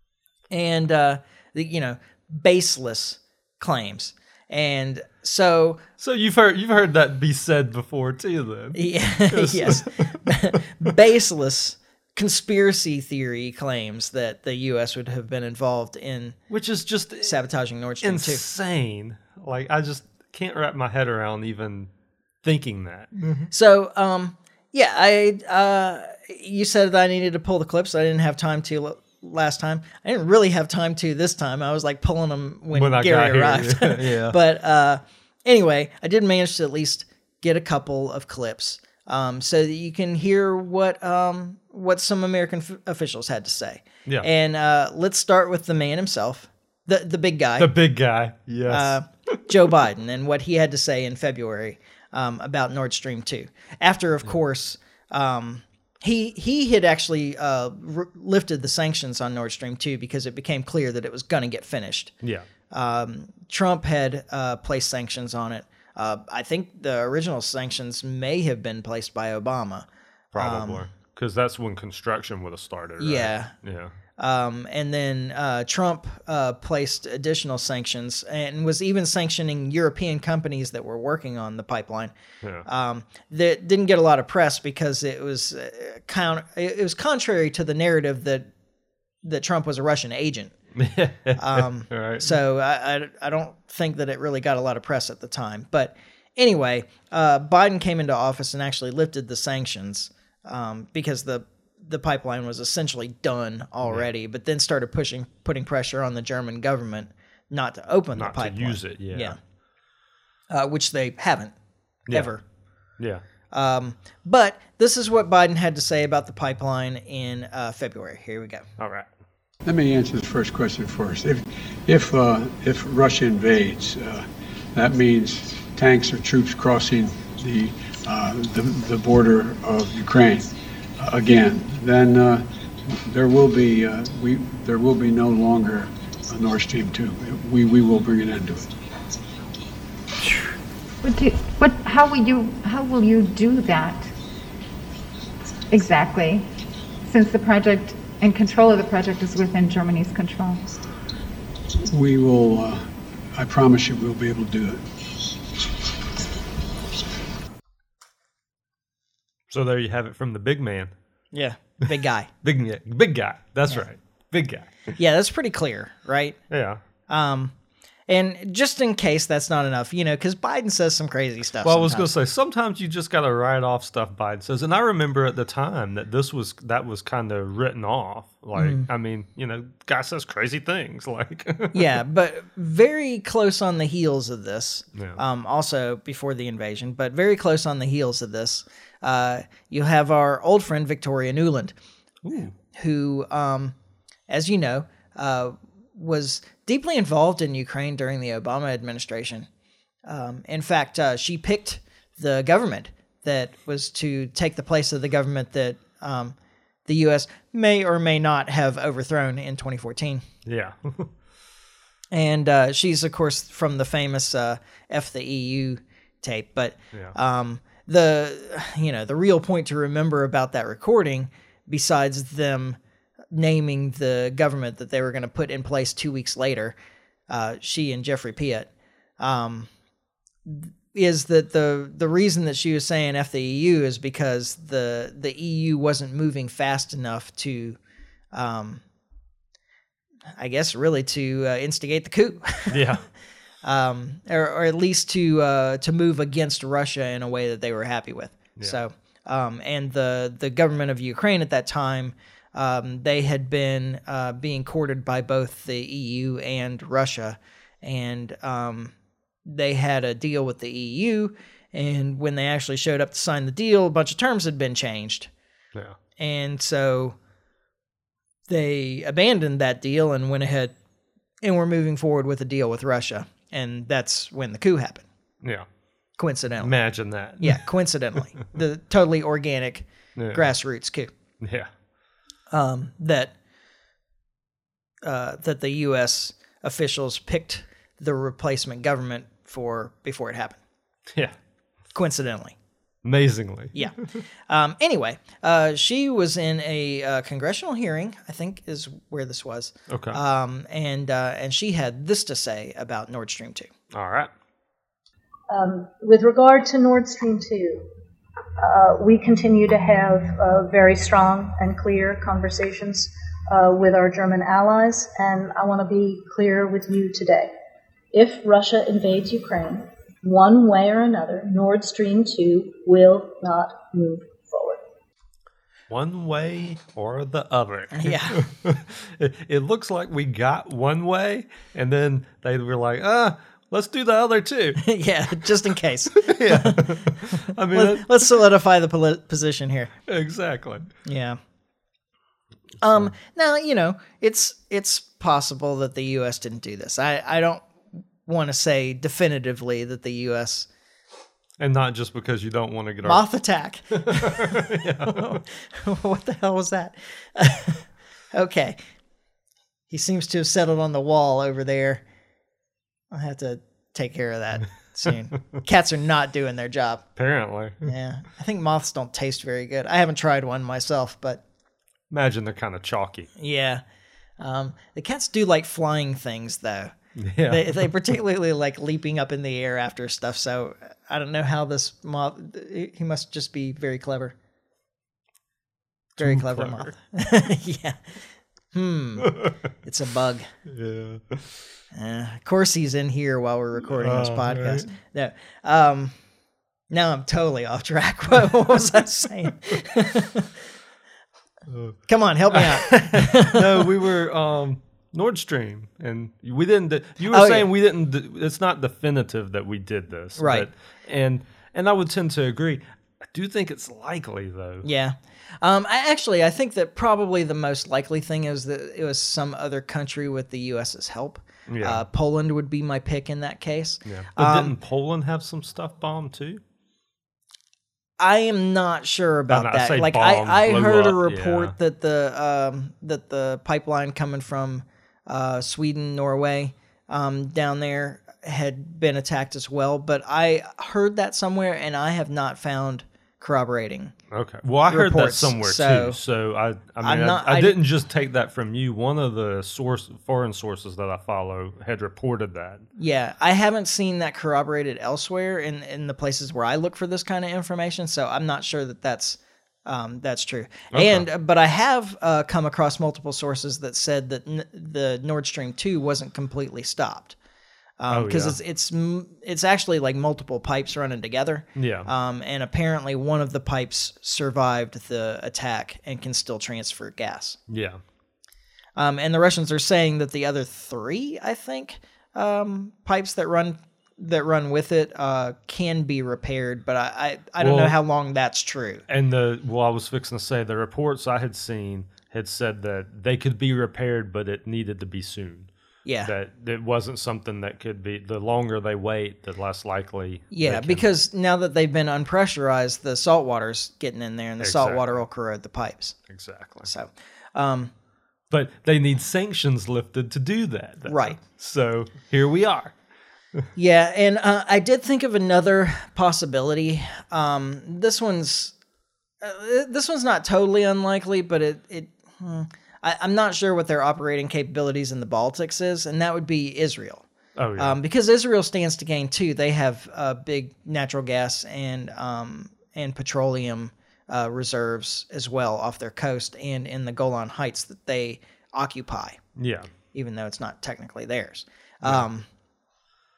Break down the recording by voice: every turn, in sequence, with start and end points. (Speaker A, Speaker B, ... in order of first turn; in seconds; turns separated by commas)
Speaker A: 0.5-5.8, Speaker B: 6.0-10.3, Speaker A: 8.7-16.4, Speaker B: 16.5-17.4, Speaker A: 17.2-18.4, Speaker B: 18.0-21.9, Speaker B: 22.4-23.5, Speaker A: 23.5-47.7, Speaker B: 32.7-34.4, Speaker B: 47.6-49.0, Speaker A: 48.7-62.1, Speaker A: 62.7-70.9, Speaker B: 70.3-73.9, Speaker A: 73.0-73.5, Speaker A: 74.2-82.1, Speaker A: 82.7-88.5, Speaker A: 89.2-90.5, Speaker B: 90.8-92.4, Speaker A: 91.4-109.4, Speaker B: 108.2-109.4, Speaker A: 110.5-111.5, Speaker A: 112.1-112.4, Speaker A: 113.5-118.7, Speaker B: 118.8-119.1, Speaker C: 119.7-138.7, Speaker D: 140.2-140.5, Speaker D: 141.0-144.1, Speaker D: 145.7-146.5, Speaker D: 147.0-150.6, Speaker C: 151.9-154.8, Speaker B: 159.5-160.9, Speaker A: 161.3-162.3, Speaker B: 162.4-164.9, Speaker A: 164.9-166.4, Speaker B: 166.5-166.8, Speaker A: 167.1-167.5, Speaker A: 168.1-172.1, Speaker B: 171.6-182.0, Speaker A: 178.6-178.9, Speaker A: 181.7-191.8, Speaker B: 192.2-192.5, Speaker A: 192.7-193.8, Speaker A: 194.3-199.5, Speaker A: 200.1-210.2, Speaker B: 210.5-211.1, Speaker A: 212.1-222.8, Speaker A: 223.3-226.8, Speaker A: 227.3-229.7, Speaker A: 230.5-237.8, Speaker A: 238.3-238.8, Speaker A: 240.4-242.9, Speaker B: 242.7-243.0, Speaker A: 243.6-258.9, Speaker A: 259.4-265.3, Speaker A: 266.2-267.2, Speaker A: 268.5-270.7, Speaker A: 271.4-275.1, Speaker A: 276.2-276.8, Speaker B: 276.6-277.6, Speaker A: 277.4-281.1, Speaker B: 280.2-280.4, Speaker B: 281.4-281.7, Speaker A: 282.5-283.3, Speaker A: 285.0-290.6, Speaker A: 291.9-292.6, Speaker B: 293.0-293.9, Speaker A: 293.7-303.7, Speaker B: 299.9-300.2, Speaker B: 303.9-304.3, Speaker E: 305.5-307.9, Speaker E: 308.6-317.5, Speaker E: 318.1-324.8, Speaker B: 325.9-334.8, Speaker A: 327.9-328.4, Speaker A: 334.8-339.9, Speaker B: 336.2-338.2, Speaker B: 340.1-340.9, Speaker A: 341.0-341.4, Speaker A: 342.8-347.7, Speaker A: 348.3-350.7, Speaker B: 351.6-353.2, Speaker A: 353.1-358.8, Speaker B: 353.9-355.4, Speaker A: 359.9-362.0, Speaker A: 363.1-367.0, Speaker B: 367.2-367.9, Speaker A: 367.9-371.4, Speaker B: 372.1-373.3, Speaker A: 373.4-373.8, Speaker A: 374.4-376.9, Speaker B: 377.2-377.9, Speaker A: 377.5-384.3, Speaker B: 386.2-386.9, Speaker A: 386.2-388.0, Speaker A: 388.7-390.5, Speaker B: 390.7-391.5, Speaker A: 391.9-396.1, Speaker B: 394.0-394.9, Speaker A: 396.9-400.5, Speaker B: 401.7-402.0, Speaker A: 402.1-403.9, Speaker B: 402.5-414.9, Speaker A: 407.3-407.7, Speaker A: 410.4-410.7, Speaker A: 414.8-424.8, Speaker B: 421.7-422.0, Speaker B: 424.1-426.6, Speaker A: 428.2-444.1, Speaker B: 429.5-431.7, Speaker B: 444.3-452.9, Speaker A: 444.9-446.2, Speaker A: 447.0-447.8, Speaker A: 453.0-467.4, Speaker B: 460.9-461.2, Speaker A: 468.0-477.6, Speaker B: 468.1-468.6, Speaker B: 471.8-472.1, Speaker B: 477.7-478.0, Speaker A: 479.0-489.0, Speaker B: 487.6-488.0, Speaker B: 489.1-495.7, Speaker A: 496.1-496.3, Speaker B: 496.2-501.1, Speaker A: 500.5-506.2, Speaker B: 504.6-505.2, Speaker B: 506.3-506.9, Speaker A: 506.9-507.9, Speaker B: 508.5-513.0, Speaker A: 511.1-511.4, Speaker A: 513.8-518.7, Speaker A: 519.4-527.3, Speaker B: 527.6-528.0, Speaker A: 527.8-539.4, Speaker B: 539.6-539.9, Speaker A: 540.1-542.5